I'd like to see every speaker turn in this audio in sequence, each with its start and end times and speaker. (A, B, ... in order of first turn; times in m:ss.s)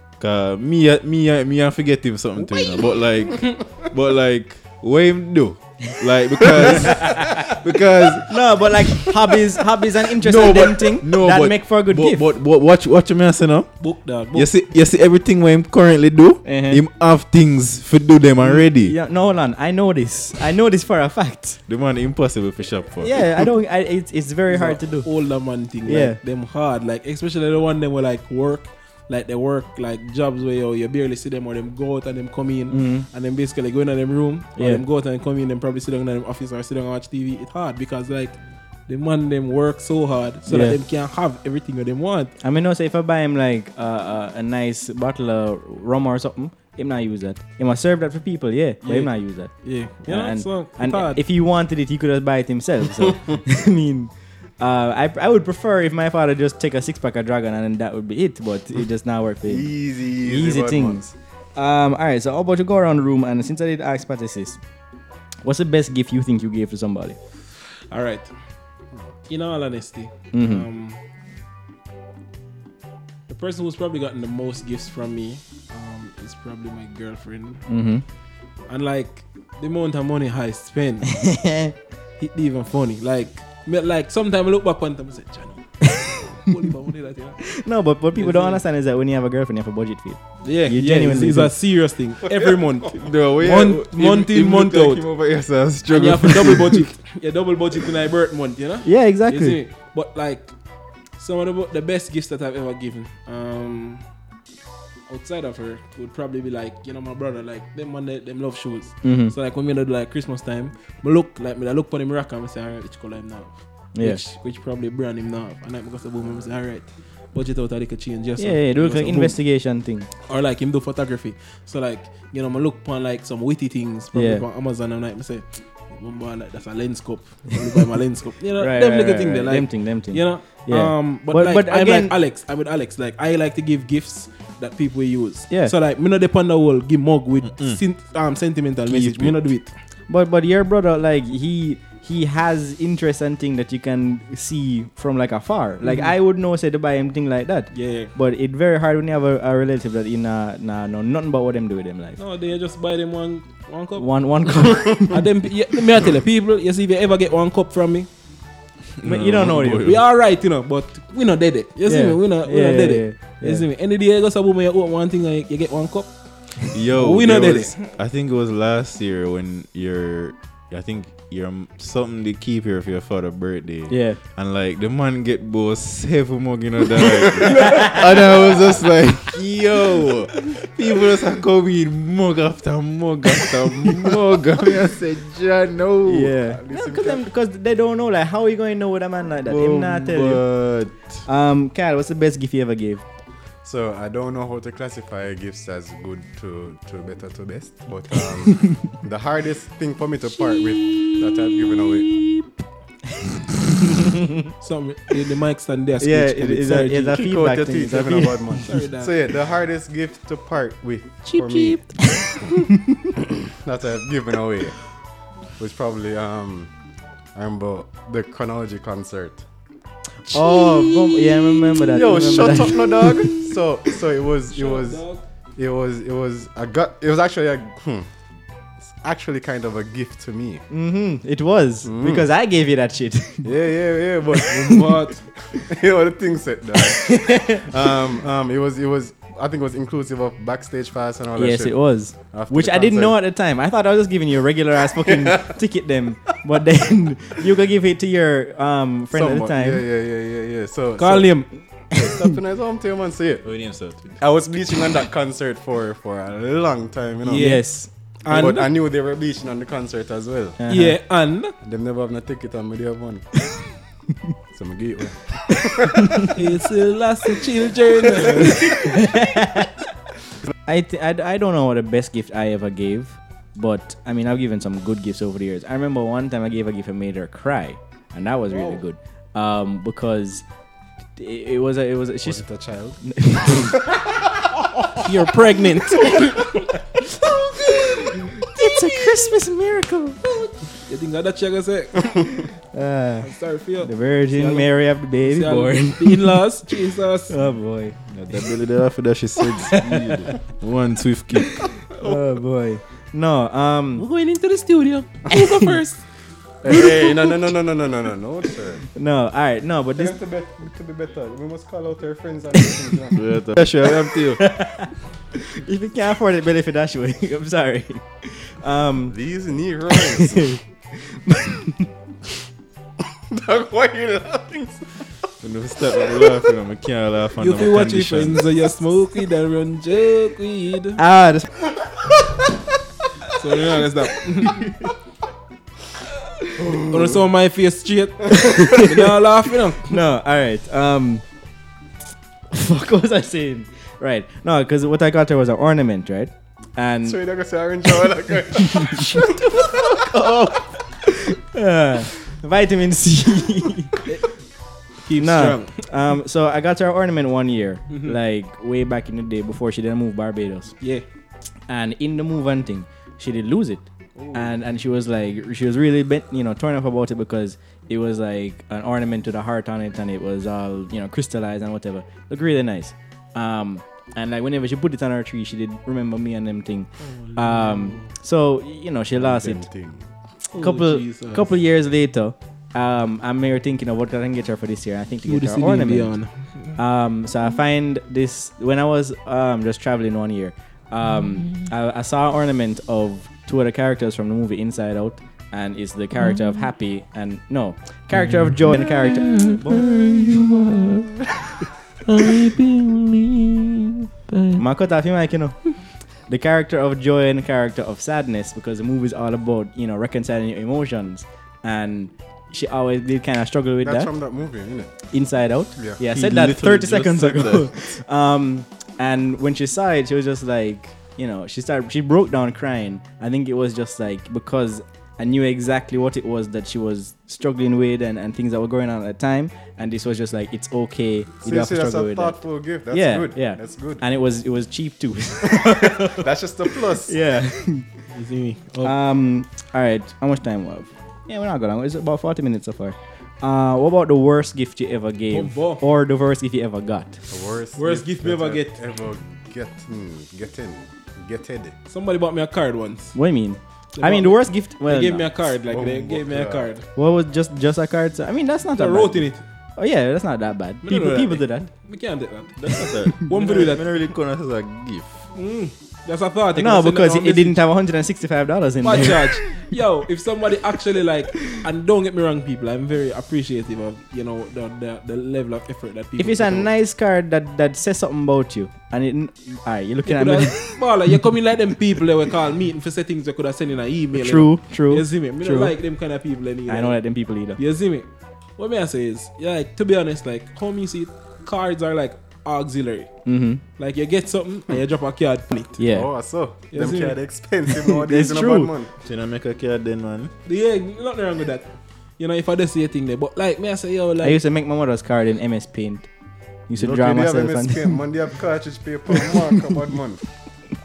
0:00.2-0:08.4 A
0:06.6-0:07.2 B
0:06.7-0:07.3 C
0:08.3-0:12.2 C
0:10.2-0:18.9 A
0:13.8-0:14.5 D
0:16.4-0:16.8 C
0:18.4-0:21.6 C
0:21.7-0:23.2 A
0:23.0-0:25.1 C
0:24.5-0:42.3 D
0:25.8-0:26.2 C
0:32.7-0:33.0 C
0:34.6-0:34.8 C
0:40.5-0:40.8 C
0:42.4-1:01.0 C
0:48.8-0:51.2 D
0:59.4-1:01.1 B
1:01.6-1:04.6 C
1:05.4-1:07.2 C
1:07.9-1:08.3 D
1:09.3-1:11.0 D
1:10.3-1:10.6 C
1:13.3-1:17.7 D
1:17.7-1:18.0 C
1:18.7-1:21.2 D
1:21.1-1:21.7 C
1:22.2-1:27.5 D
1:27.4-1:31.5 C
1:28.1-1:28.6 D
1:30.4-1:35.0 D
1:32.9-1:36.9 A
1:35.9-1:40.5 D
1:38.8-1:39.6 C
1:41.2-1:44.0 D
1:45.1-1:59.4 D
1:49.0-1:49.3 C
1:53.9-1:54.2 C
1:58.4-2:00.1 C
2:00.3-2:19.7 D
2:04.1-2:04.4 C
2:08.6-2:12.1 C
2:17.5-2:17.8 A
2:18.9-2:19.4 A
2:20.1-2:32.2 C
2:25.8-2:26.1 D
2:27.7-2:28.1 D
2:32.2-2:34.1 D
2:34.0-2:35.2 C
2:34.9-2:38.1 D
2:39.0-2:40.0 A
2:39.0-2:40.0 C
2:39.8-2:47.9 D
2:41.9-2:43.6 C
2:46.7-3:06.3 A
2:53.9-2:54.2 C
2:57.7-2:58.0 C
3:06.0-3:10.6 C
3:06.4-3:07.2 B
3:09.4-3:11.2 A
3:11.2-3:13.0 C
3:13.6-3:22.2 B
3:23.7-3:24.5 C
3:24.6-3:27.2 D
3:26.0-3:28.6 C
3:27.1-3:32.1 B
3:28.7-3:29.1 D
3:31.2-3:32.6 D
3:33.5-3:34.8 B
3:35.6-3:36.7 B
3:37.3-3:39.4 B
3:40.3-3:41.8 D
3:40.3-3:43.4 C
3:41.9-3:45.0 B
3:44.5-3:45.2 D
3:45.6-3:48.1 B
3:48.8-3:50.6 B
3:50.7-3:53.5 C
3:51.8-3:52.3 B
3:53.4-4:03.2 B
3:54.6-3:55.2 D
3:56.9-3:57.7 C
4:01.4-4:09.8 C
4:05.0-4:05.5 B
4:09.1-4:13.5 B
4:11.0-4:11.5 D
4:11.9-4:12.2 C
4:13.4-4:14.2 A
4:14.2-4:17.4 B
4:17.2-4:18.7 D
4:17.3-4:17.9 C
4:18.3-4:20.6 B
4:20.6-4:21.0 C
4:20.7-4:21.5 D
4:21.6-4:23.2 B
4:24.5-4:26.3 B
4:25.9-4:26.3 C
4:26.3-4:28.9 D
4:28.6-4:29.7 C
4:30.6-4:40.4 C
4:38.5-4:38.8 D
4:41.2-4:42.4 C
4:42.2-4:44.0 B
4:43.0-4:43.8 C
4:45.0-4:46.6 D
4:47.8-4:50.2 C
4:50.4-4:52.5 D
4:52.7-4:53.3 C
4:53.2-4:57.4 D
4:53.8-4:56.4 C
4:57.3-4:58.0 C
4:58.1-5:01.6 A
4:59.6-5:00.3 C
5:02.0-5:04.0 C
5:04.0-5:06.0 D
5:06.6-5:08.8 B
5:06.6-5:07.4 D
5:08.9-5:10.1 C
5:10.0-5:13.2 B
5:13.1-5:14.4 A
5:13.8-5:19.2 C
5:19.1-5:20.5 B
5:20.0-5:21.9 C
5:23.2-5:24.8 B
5:25.4-5:28.5 A
5:26.0-5:26.4 B
5:27.4-5:31.0 D
5:31.0-5:31.6 C
5:33.4-5:34.7 D
5:36.6-5:37.2 B
5:36.8-5:40.0 D
5:38.3-5:38.9 C
5:39.9-5:41.2 C
5:42.5-5:47.2 C
5:47.0-5:50.0 B
5:48.7-5:49.3 C
5:49.9-5:54.0 C
5:55.0-5:55.8 D
5:55.2-6:00.7 C
5:57.9-5:58.2 D
6:01.7-6:19.7 C
6:04.2-6:04.5 D
6:17.0-6:18.1 D
6:19.2-6:20.0 B
6:20.5-6:21.5 D
6:20.6-6:26.1 C
6:25.2-6:26.7 D
6:26.8-6:40.0 C
6:38.2-6:41.0 A
6:42.0-6:44.6 A
6:44.6-6:45.7 C
6:46.3-6:54.1 C
6:53.8-6:55.0 B
6:55.1-7:12.4 C
6:56.1-6:57.7 A
7:11.4-7:14.0 B
7:12.9-7:17.9 C
7:15.5-7:17.1 B
7:18.1-7:18.9 D
7:18.8-7:27.2 C
7:25.3-7:25.8 D
7:27.3-7:31.7 B
7:27.8-7:28.8 D
7:31.9-7:33.2 D
7:33.1-7:35.3 C
7:34.0-7:36.8 D
7:35.7-7:36.7 B
7:36.9-7:41.7 C
7:38.8-7:39.4 D
7:40.8-7:43.8 D
7:42.6-7:45.2 A
7:45.3-7:47.6 D
7:46.6-7:49.3 C
7:48.8-7:56.7 D
7:56.2-8:00.8 C
8:00.0-8:07.0 D
8:04.2-8:05.7 C
8:06.7-8:07.6 C
8:07.6-8:08.0 D
8:08.6-8:13.1 D
8:13.2-8:13.6 C
8:13.8-8:15.8 D
8:15.8-8:16.1 C
8:15.8-8:18.9 B
8:16.7-8:17.2 D
8:17.9-8:18.7 C
8:19.0-8:20.3 A
8:20.4-8:24.4 D
8:24.2-8:26.1 C
8:26.7-8:27.9 C
8:26.7-8:30.2 B